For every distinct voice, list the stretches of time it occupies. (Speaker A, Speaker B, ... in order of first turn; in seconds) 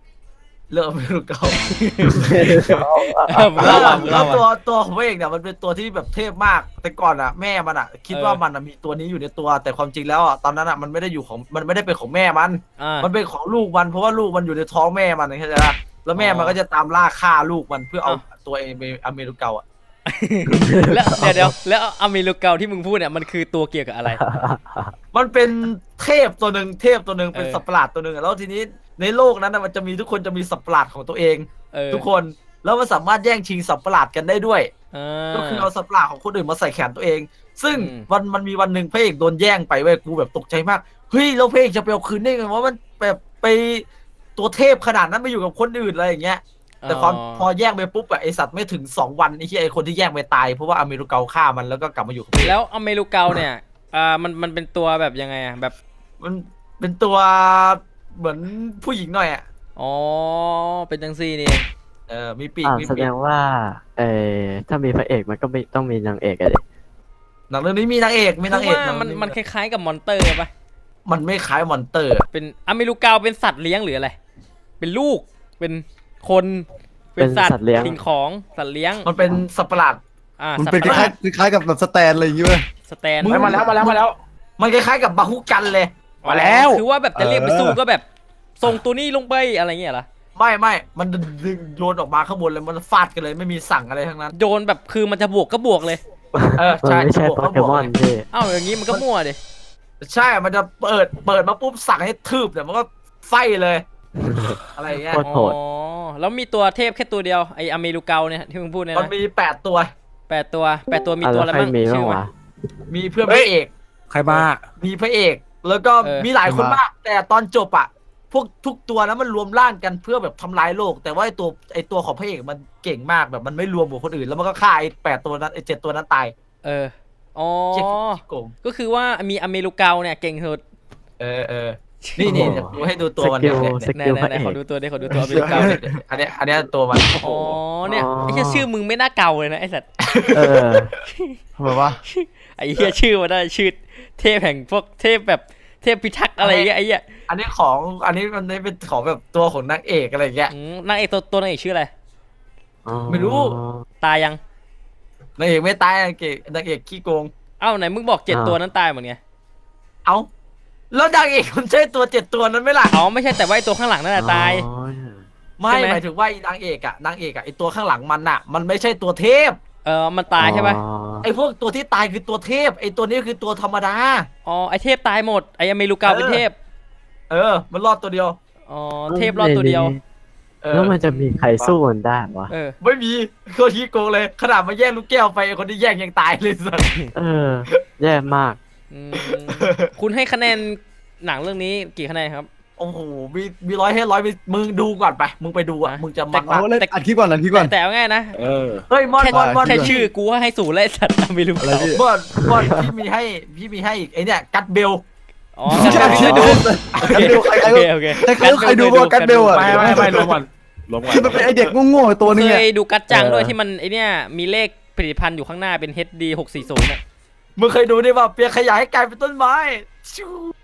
Speaker A: 0.7-1.6, 3.6-19.6, 25.1-34.7, 35.3-52.6, 56.2-59.4, 62.1-63.1, 67.5-69.3, 71.0-72.2, 79.0-80.0, 80.8-81.1, 83.2-84.0, 84.6-85.9, 90.3-94.3, 96.5-97.9, 100.0-103.8, 104.7-105.2, 108.9-109.9, 112.9-113.7, 114.8-126.3, 127.7-128.5, 131.2-133.8, 135.3-137.2, 140.1-140.9, 146.4-146.7, 147.3-150.5, 153.1-153.5, 155.4-157.3, 160.9-162.9, 165.6-169.6, 171.2-174.3, 176.1-176.4, 177.3-178.4, 180.6-181.0, 182.8-186.9, 189.2-189.9, 192.8-196.6, 198.9-200.1, 201.9-205.0, 205.8-207.6, 208.1-210.3, 217.6-220.5
Speaker B: 1.7-2.7, 3.3-4.4, 8.1-8.4, 12.8-13.1, 16.1-16.6, 20.1-24.2, 27.3-27.6, 31.7-32.1, 34.9-35.7, 37.7-38.0, 46.8-47.5, 52.4-55.7, 59.8-61.6, 68.5-70.5, 72.3-74.2, 74.8-79.0, 80.4-81.1, 82.9-83.6, 86.2-88.0, 88.6-90.1, 94.3-96.0, 98.3-99.4, 105.2-109.1, 110.3-112.2, 116.0-116.3, 126.6-130.6, 132.1-132.5, 133.9-135.8, 137.2-139.8, 141.1-141.4, 142.1-147.0, 150.5-151.9, 154.0-154.4, 157.6-159.2, 162.9-164.7, 165.7-166.0, 169.8-170.8, 174.4-176.6, 178.7-179.9, 181.1-181.4, 188.9-192.5, 195.8-198.3, 199.2-201.9, 205.6-209.9, 212.2-217.0
Speaker C: 2.1-4.4, 20.6-21.5, 24.2-24.9, 62.6-66.6, 77.2-78.0, 96.3-98.2, 104.2-105.5, 111.2-112.3, 132.2-134.6, 137.8-138.7, 140.3-140.9, 152.8-153.8, 158.3-158.6, 164.2-165.2, 170.4-171.3, 179.1-180.0, 180.7-182.5, 187.1-188.6
Speaker D: 80.5-82.6, 87.1-87.8, 116.4-116.8, 135.1-135.8, 141.6-142.0, 196.5-197.7, 199.3-199.9, 201.6-202.8, 205.7-210.2, 211.1-213.5
Speaker E: 83.3-84.2, 86.2-86.8, 114.1-114.7, 198.3-198.8, 209.5-211.4